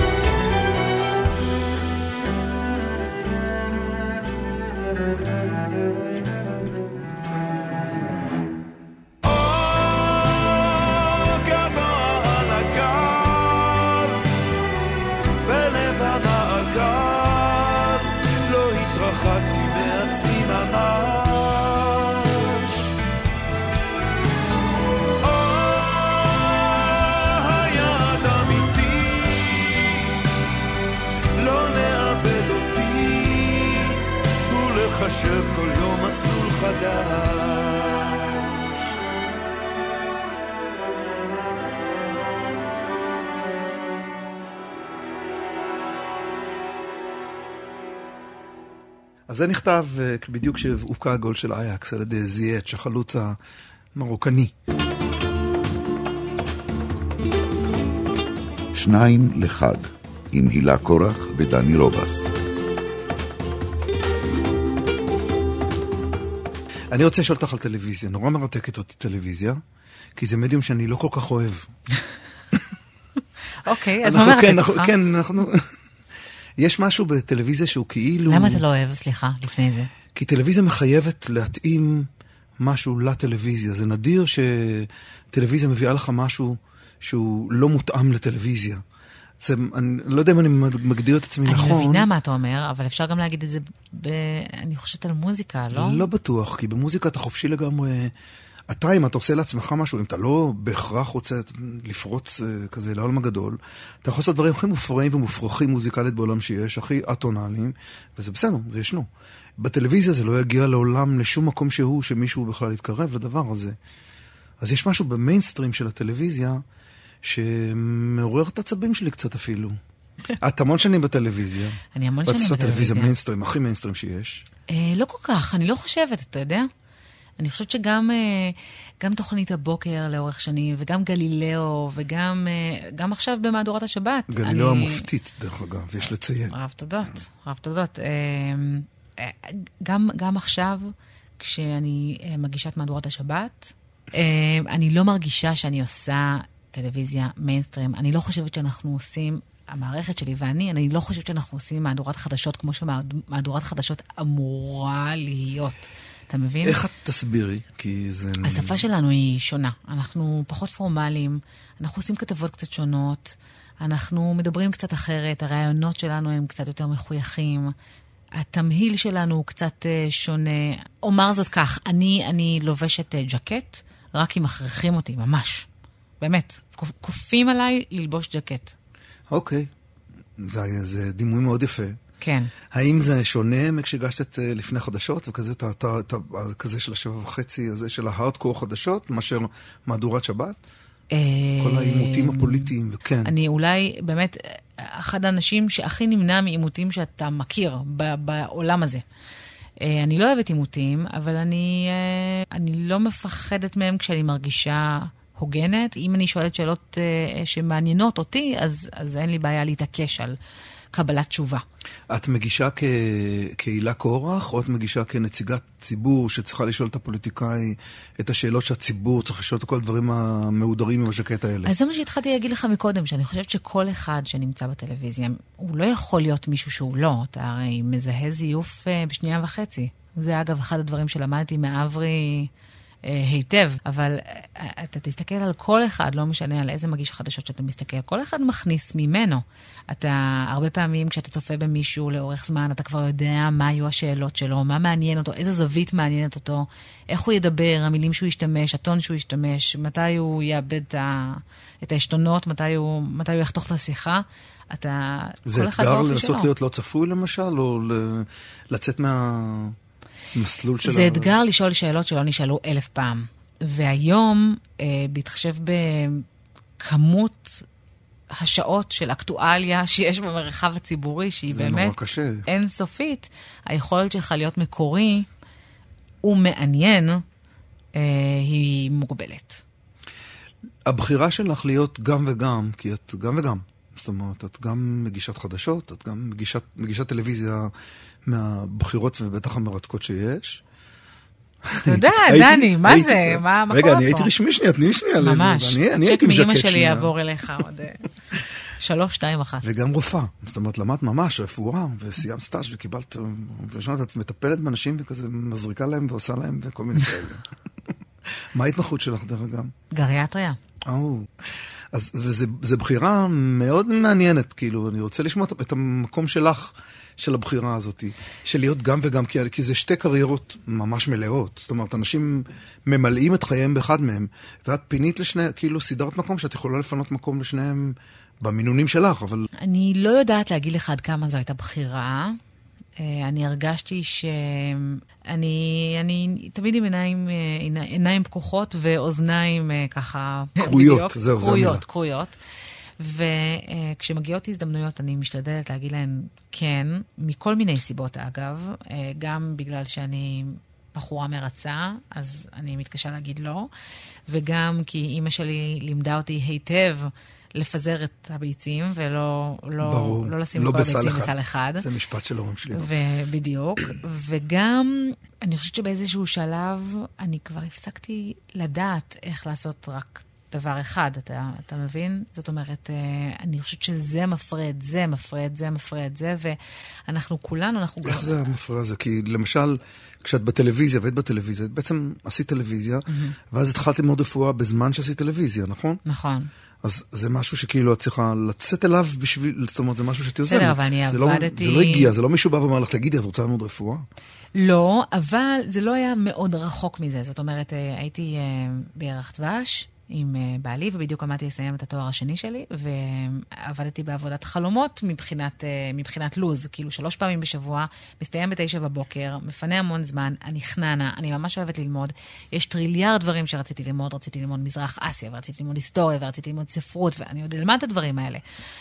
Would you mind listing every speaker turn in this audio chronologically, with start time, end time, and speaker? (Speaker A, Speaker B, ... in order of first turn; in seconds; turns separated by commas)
Speaker A: 9.3-14.1, Speaker A: 15.4-22.9, Speaker A: 25.2-30.0, Speaker A: 31.4-34.0, Speaker A: 34.5-38.7, Speaker A: 49.3-53.4, Speaker A: 53.9-54.5, Speaker B: 58.7-62.3, Speaker A: 66.9-69.6, Speaker A: 70.2-71.7, Speaker C: 73.6-74.9, Speaker A: 74.0-75.7, Speaker A: 76.6-78.6, Speaker C: 78.3-79.9, Speaker A: 80.1-82.1, Speaker A: 82.6-88.8, Speaker A: 89.4-92.1, Speaker C: 91.5-96.0, Speaker A: 95.7-98.1, Speaker A: 98.7-113.8, Speaker A: 114.6-116.6, Speaker A: 117.2-119.8, Speaker A: 120.4-124.4, Speaker C: 121.9-123.1, Speaker C: 124.7-126.7, Speaker C: 127.4-135.1, Speaker A: 134.3-136.5, Speaker C: 136.5-156.8, Speaker A: 156.6-158.8, Speaker C: 158.4-167.7, Speaker C: 168.4-175.7, Speaker C: 176.2-178.7, Speaker A: 179.3-179.7, Speaker A: 180.4-182.0, Speaker C: 182.2-182.5, Speaker A: 182.7-190.6, Speaker C: 191.1-192.7, Speaker A: 191.6-193.3, Speaker C: 193.2-199.0, Speaker C: 199.8-210.4, Speaker C: 210.9-211.6, Speaker A: 212.1-221.7, Speaker C: 221.6-232.5, Speaker C: 233.1-256.5, Speaker A: 255.4-259.8, Speaker A: 260.3-261.4, Speaker C: 260.8-266.2, Speaker C: 266.8-267.6, Speaker C: 268.3-275.3, Speaker A: 271.5-272.5, Speaker C: 276.2-277.2, Speaker C: 277.9-279.6, Speaker A: 280.9-287.7, Speaker A: 288.2-290.6, Speaker A: 291.7-297.1, Speaker C: 291.8-294.3, Speaker C: 295.2-298.0, Speaker C: 298.8-299.6, Speaker A: 299.6-307.4, Speaker A: 308.5-309.7, Speaker C: 309.9-310.6, Speaker A: 310.9-329.5, Speaker C: 329.6-332.4, Speaker C: 333.0-342.4, Speaker A: 340.6-341.8, Speaker C: 343.0-353.7, Speaker C: 354.3-361.9, Speaker A: 359.8-362.9, Speaker C: 362.7-378.5, Speaker A: 378.1-386.0, Speaker C: 383.1-383.3, Speaker C: 386.1-386.5, Speaker A: 386.8-394.1, Speaker C: 390.4-392.1, Speaker C: 394.5-418.4